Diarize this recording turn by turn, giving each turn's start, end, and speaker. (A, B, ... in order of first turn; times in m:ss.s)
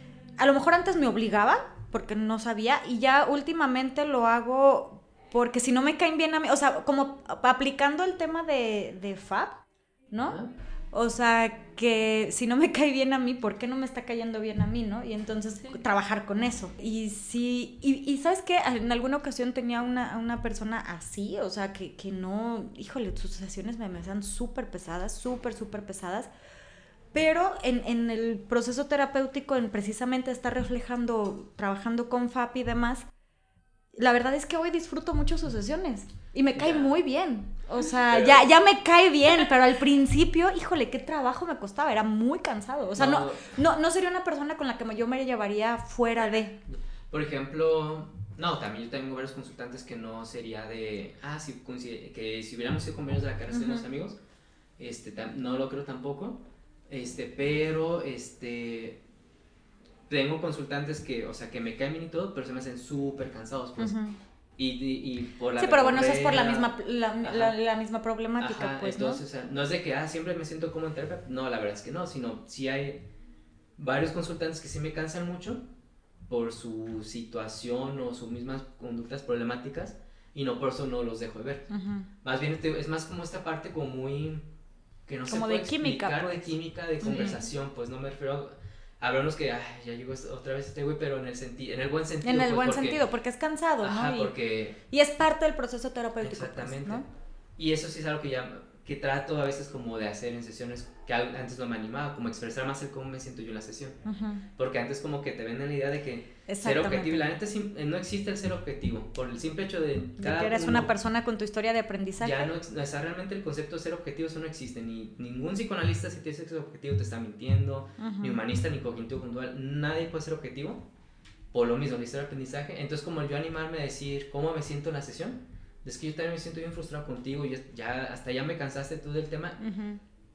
0:00.4-0:10.4 A
0:10.2-0:10.5 B
0:10.9-0:26.3 A
0:27.1-0:33.0 A
0:33.9-0:46.6 A
0:36.5-0:36.9 B
0:38.0-0:38.5 B
0:42.9-0:43.6 B
0:46.7-0:54.2 B
0:53.5-0:53.9 A
0:54.8-0:59.0 B
1:00.1-1:04.0 B
1:03.8-1:04.2 A
1:04.6-1:07.6 B
1:05.6-1:09.2 A
1:08.4-1:13.0 B
1:13.8-1:15.6 B
1:16.3-1:21.7 B
1:21.7-1:22.1 A
1:22.2-1:24.4 B
1:25.1-1:33.0 B
1:25.3-1:27.4 A
1:32.2-1:34.3 A
1:33.8-1:34.8 B
1:34.9-1:37.0 A
1:36.2-1:37.0 B
1:37.6-1:44.0 B
1:44.0-1:44.4 A
1:44.6-1:50.9 B
1:46.5-1:47.3 A
1:50.2-1:52.5 A
1:52.2-2:00.8 B
1:58.0-1:58.4 A
2:01.5-2:09.6 B
2:09.6-2:10.0 A